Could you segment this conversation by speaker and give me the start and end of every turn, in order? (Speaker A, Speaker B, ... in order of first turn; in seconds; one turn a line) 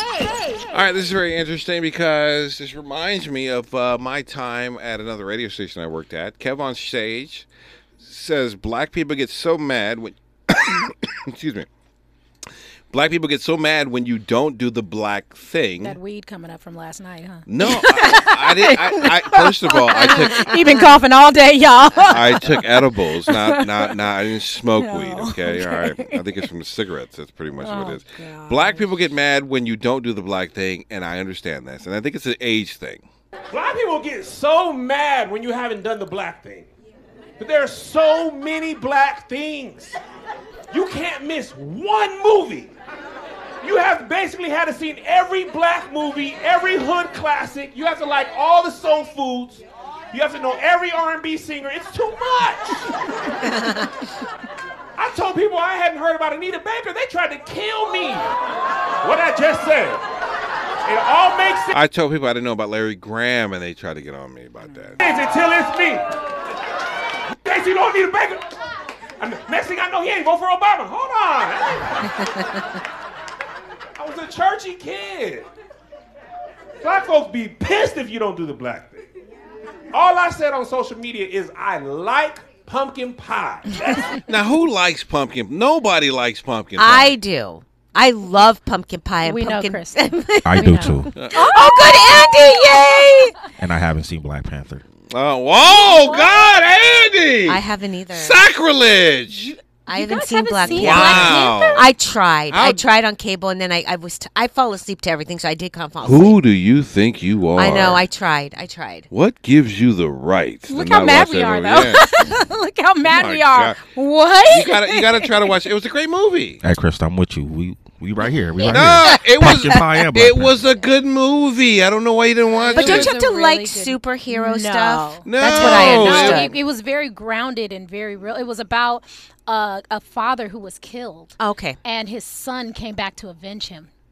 Speaker A: 0.7-7.5
Speaker A: 8.0-11.7
Speaker A: 12.9-16.0
Speaker B: 15.8-22.7
Speaker A: 17.5-20.7
Speaker A: 22.0-33.0
Speaker B: 23.2-24.0
Speaker B: 24.8-26.4
Speaker B: 27.6-28.9
Speaker C: 33.5-36.7
Speaker C: 37.4-39.9
Speaker C: 40.7-42.7
Speaker C: 43.6-52.8
Speaker C: 54.9-58.3
Speaker C: 59.0-60.0
Speaker C: 60.8-61.7
Speaker A: 61.7-65.0
Speaker C: 65.0-66.0
Speaker C: 67.4-68.4
Speaker C: 69.2-72.4
Speaker C: 74.0-75.5
Speaker C: 76.8-79.0
Speaker C: 79.9-84.2
Speaker A: 84.2-87.2
Speaker D: 86.8-93.3
Speaker B: 89.2-90.0
Speaker E: 90.4-91.1
Speaker B: 90.6-93.0
Speaker A: 91.2-91.4
Speaker E: 93.6-94.8
Speaker A: 95.0-99.5
Speaker B: 95.6-96.5
Speaker D: 97.5-98.4
Speaker B: 99.3-101.9
Speaker D: 99.9-106.4
Speaker A: 100.7-101.9
Speaker A: 102.5-102.8
Speaker A: 106.0-108.0
Speaker D: 107.5-109.1
Speaker A: 109.1-112.1
Speaker B: 110.7-115.5
Speaker A: 113.1-113.8
Speaker A: 114.5-116.6
Speaker E: 116.6-120.5
Speaker B: 118.6-119.1
Speaker A: 118.7-123.1
Speaker B: 122.6-133.9
Speaker D: 122.7-126.5
Speaker A: 125.2-126.5
Speaker D: 131.4-131.8